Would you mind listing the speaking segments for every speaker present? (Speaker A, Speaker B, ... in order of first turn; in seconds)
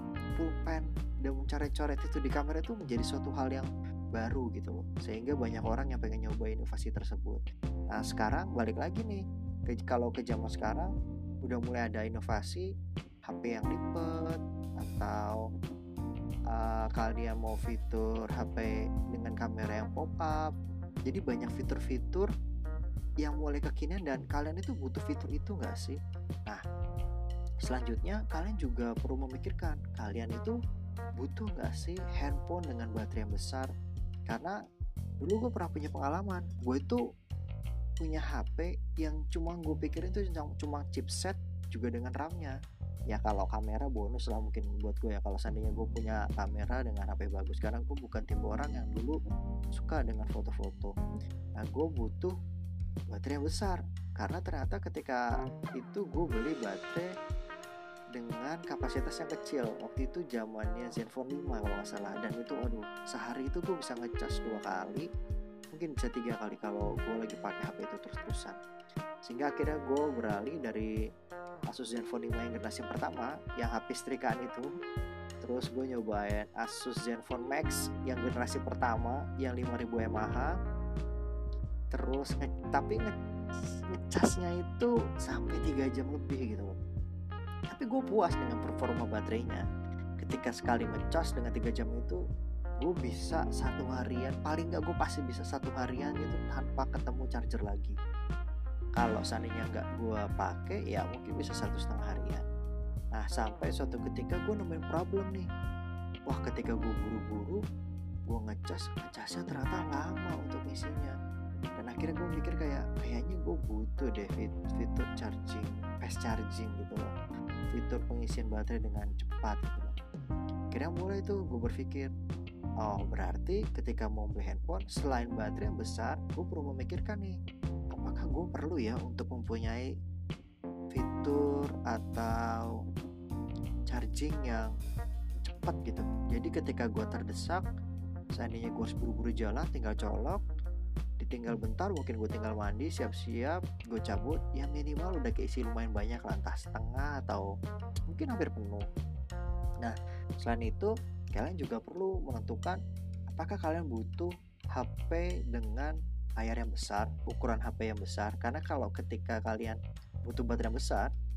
Speaker A: 0.4-10.9, 11.5-12.7, 13.3-15.4, 16.5-20.5, 21.1-22.3, 23.2-26.6, 27.6-30.5, 31.2-33.7, 34.3-34.5, 35.2-37.0, 38.0-42.5, 43.1-49.1, 49.7-50.9, 51.6-52.3, 53.1-55.3, 55.8-57.1, 58.1-65.1, 65.7-68.6, 69.2-70.9, 71.7-74.7, 75.4-80.5, 81.9-86.8, 87.7-89.6, 90.2-92.2, 92.8-97.9, 99.0-102.4, 103.2-105.5, 106.3-107.6, 108.3-111.1, 111.8-117.0, 117.7-119.9, 120.7-122.1, 122.8-127.3, 127.9-129.9, 130.9-132.7, 133.9-134.7, 135.4-137.6, 138.4-140.4, 141.2-147.5, 148.1-148.8, 149.8-152.8, 153.3-161.1